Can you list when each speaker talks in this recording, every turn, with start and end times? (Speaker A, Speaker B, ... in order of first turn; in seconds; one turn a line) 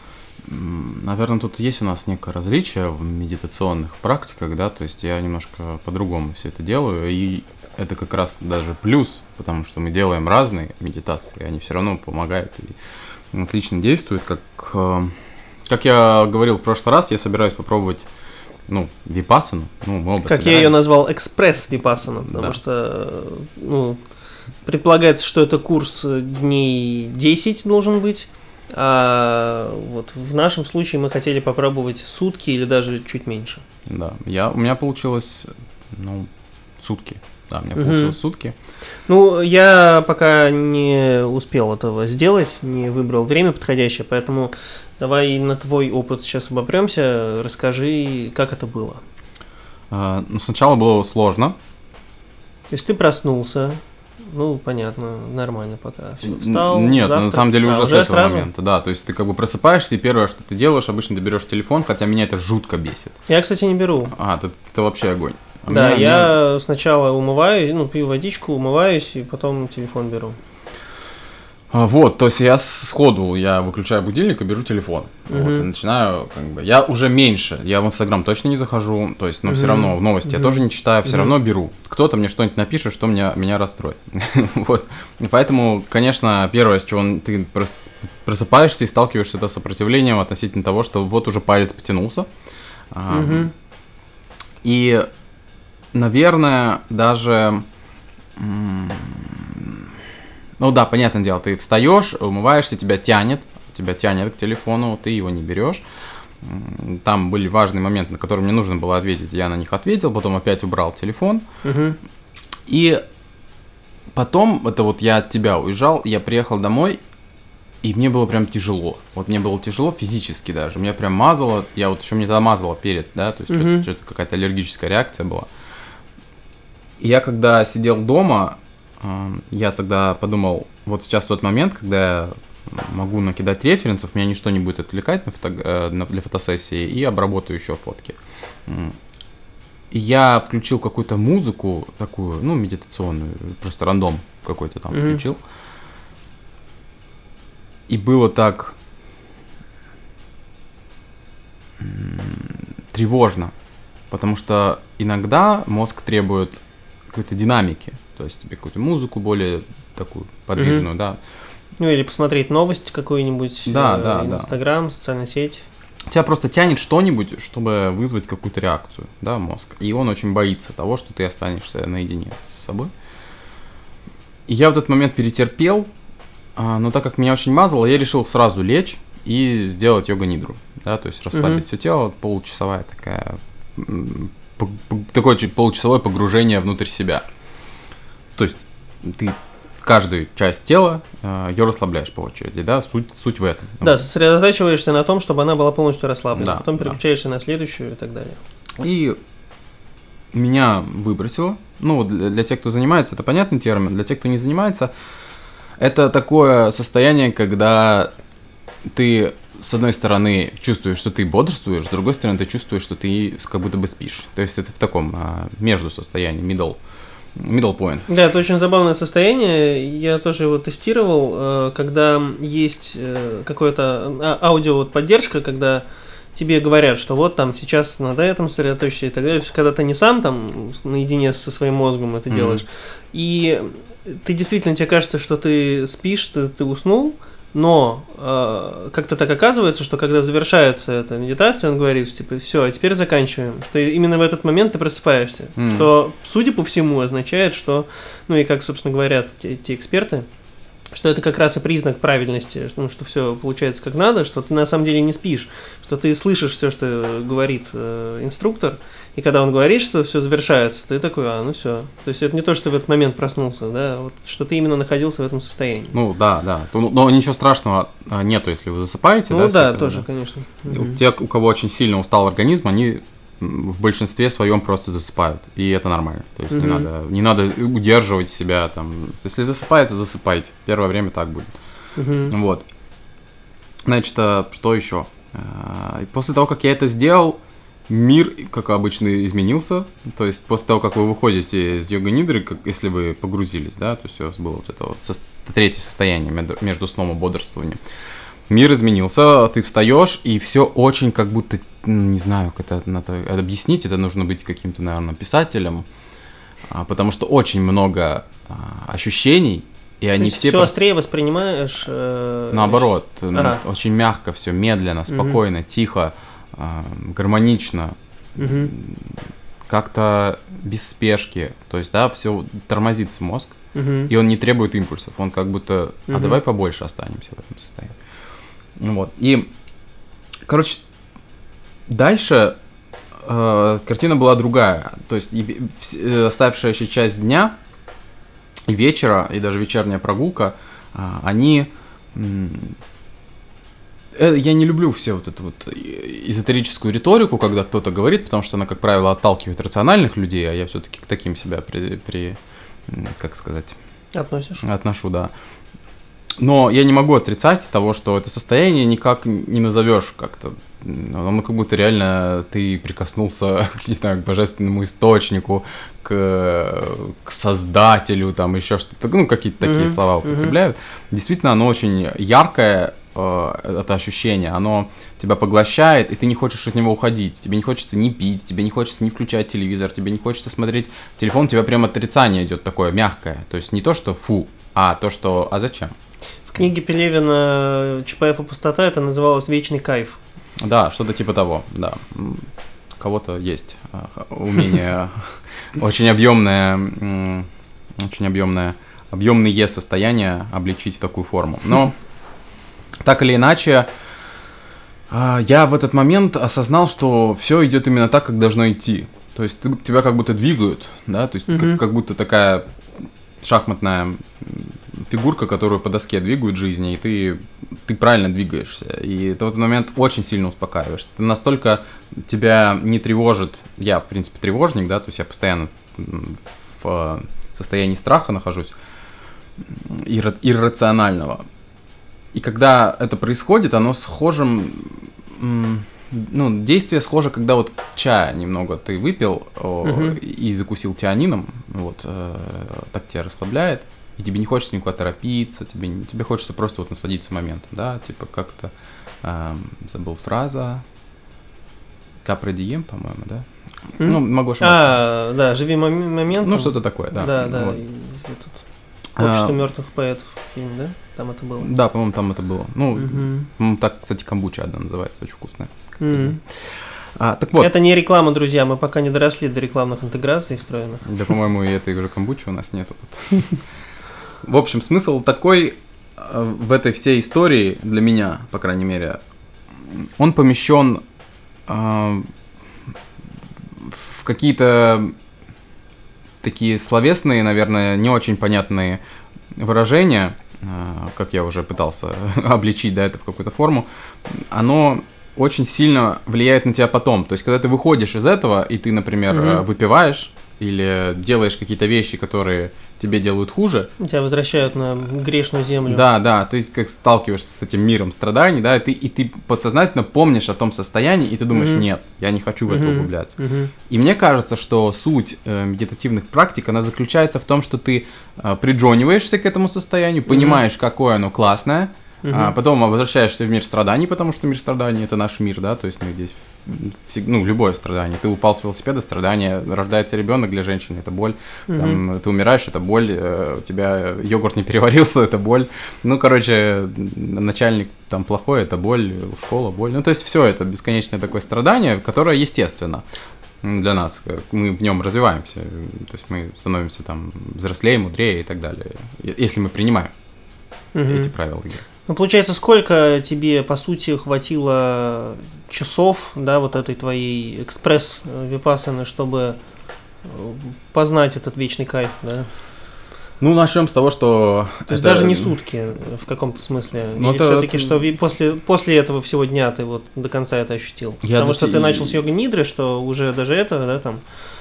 Speaker A: 0.4-12.8
Speaker A: 13.3-18.1
Speaker A: 18.7-20.9
Speaker B: 20.2-24.0
Speaker A: 22.2-22.6
Speaker B: 24.6-33.6
Speaker A: 33.9-36.3
Speaker A: 36.8-38.6
Speaker B: 37.8-38.1
Speaker B: 39.1-49.0
Speaker A: 49.9-51.6
Speaker B: 52.7-58.5
Speaker A: 56.2-63.2
Speaker B: 63.3-64.1
Speaker A: 64.1-66.4
Speaker B: 65.7-70.4
Speaker A: 71.7-92.3
Speaker B: 75.3-75.7
Speaker B: 79.5-81.3
Speaker A: 92.9-93.5
Speaker B: 93.1-93.5
Speaker A: 94.6-95.1
Speaker A: 95.9-97.7
Speaker A: 98.4-99.9
Speaker A: 100.6-105.8
Speaker A: 106.4-111.5
Speaker B: 111.6-112.0
Speaker A: 112.7-113.0
Speaker A: 114.1-117.0
Speaker A: 117.8-125.5
Speaker B: 123.5-123.8
Speaker A: 127.0-139.0
Speaker A: 139.9-145.4
Speaker B: 144.9-145.2
Speaker A: 147.9-148.8
Speaker A: 151.8-153.5
Speaker A: 154.1-161.2
Speaker B: 160.6-160.9
Speaker B: 161.8-165.6
Speaker A: 163.7-164.5
Speaker A: 166.1-172.9
Speaker A: 174.5-175.9
Speaker A: 176.6-187.2
Speaker B: 181.3-181.6
Speaker A: 188.4-194.0
Speaker B: 193.8-198.4
Speaker A: 196.3-197.0
Speaker A: 198.8-199.2
Speaker A: 200.3-204.9
Speaker A: 205.8-208.1
Speaker A: 208.8-216.8
Speaker A: 217.4-218.1
Speaker B: 218.1-250.2
Speaker A: 232.3-232.6
Speaker A: 245.6-245.9
Speaker B: 250.9-266.0
Speaker A: 265.9-270.1
Speaker B: 269.3-271.0
Speaker A: 270.7-281.6
Speaker B: 276.5-276.9
Speaker B: 282.0-282.3
Speaker A: 282.3-282.6
Speaker A: 283.9-297.8
Speaker A: 298.5-305.9
Speaker A: 306.7-310.9
Speaker B: 310.2-313.6
Speaker A: 312.5-323.6
Speaker B: 315.1-315.4
Speaker B: 318.4-318.7
Speaker B: 323.7-324.1
Speaker A: 324.1-328.0
Speaker B: 326.1-326.4
Speaker A: 328.8-329.5
Speaker A: 330.4-330.8
Speaker A: 331.9-332.6
Speaker A: 333.1-337.6
Speaker A: 338.7-342.8
Speaker A: 344.1-353.8
Speaker B: 354.1-354.6
Speaker A: 354.6-355.3
Speaker A: 356.4-385.9
Speaker B: 369.6-370.6
Speaker B: 386.5-390.2
Speaker A: 390.6-401.9
Speaker A: 403.0-403.9
Speaker A: 405.1-412.7
Speaker B: 411.5-411.8
Speaker A: 413.4-428.7
Speaker A: 429.6-431.4
Speaker A: 432.3-450.8
Speaker B: 439.8-440.2
Speaker A: 452.2-453.5
Speaker A: 454.0-455.0
Speaker B: 454.0-458.6
Speaker A: 456.4-457.8
Speaker A: 459.2-459.6
Speaker B: 459.2-461.7
Speaker A: 461.6-467.7
Speaker B: 462.9-463.5
Speaker B: 466.0-466.4
Speaker B: 467.6-471.1
Speaker A: 471.1-473.6
Speaker A: 474.4-479.2
Speaker A: 479.8-481.0
Speaker A: 481.7-482.3
Speaker A: 483.8-485.1
Speaker A: 486.4-489.0
Speaker A: 489.5-503.9
Speaker B: 499.3-499.6
Speaker B: 504.0-506.1
Speaker A: 505.9-543.0
Speaker B: 511.5-511.9
Speaker B: 512.7-513.7
Speaker B: 520.3-520.6
Speaker B: 522.2-522.5
Speaker B: 531.7-532.0
Speaker A: 543.6-550.1
Speaker B: 550.9-551.3
Speaker A: 551.1-551.8
Speaker B: 552.1-559.6
Speaker B: 560.2-562.5
Speaker A: 563.4-565.5
Speaker B: 564.9-574.2
Speaker A: 567.1-568.0
Speaker A: 571.2-572.2